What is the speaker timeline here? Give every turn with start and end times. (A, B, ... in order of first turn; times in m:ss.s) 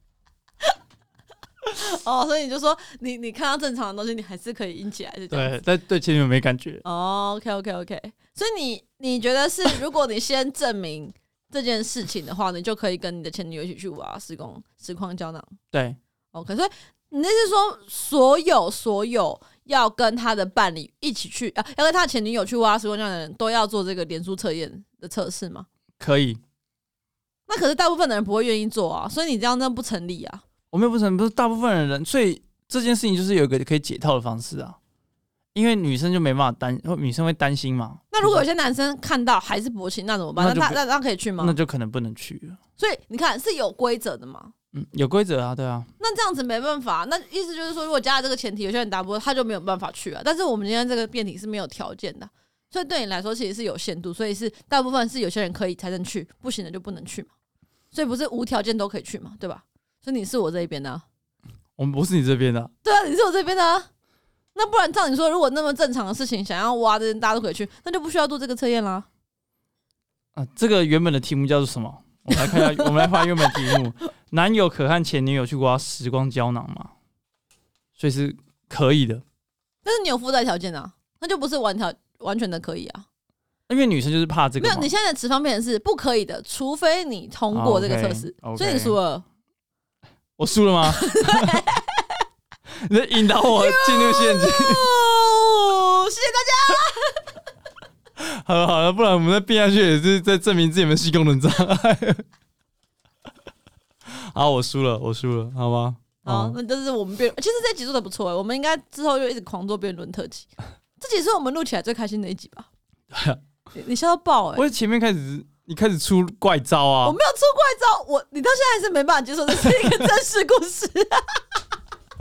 0:01.8-0:05.6 A
0:05.3-0:06.8 B
0:06.8-0:15.5 A
0:15.7-0:16.0 B
0:16.3-0:25.7 A
0:26.0-0:26.4 B
0:27.5-0:30.4 A
0:30.7-0:34.8 B
0:35.5-0:38.4 B
0:38.1-0:41.6 A
0:40.4-0:40.8 B
0:41.4-0:42.6 B
0:42.8-0:44.5 A
0:44.7-0:45.9 B
0:46.0-0:57.3 A
0:57.9-1:01.0 A
1:01.8-1:02.7 B
1:02.8-1:03.9 A
1:04.6-1:09.1 A
1:10.4-1:16.9 B
1:12.3-1:13.8 A
1:18.0-1:19.2 B
1:19.8-1:23.0 A
1:23.7-1:24.9 B
1:24.6-1:29.2 A
1:27.5-1:29.0 B
1:30.4-1:31.6 B
1:30.8-1:32.2 A
1:32.8-1:34.8 B
1:33.4-1:37.3 A
1:38.2-1:42.2 B
1:44.1-1:46.6 B
1:46.2-1:52.7 A
1:53.1-1:53.4 B
1:53.7-1:54.6 A
1:54.6-1:57.2 B
1:57.0-2:01.6 A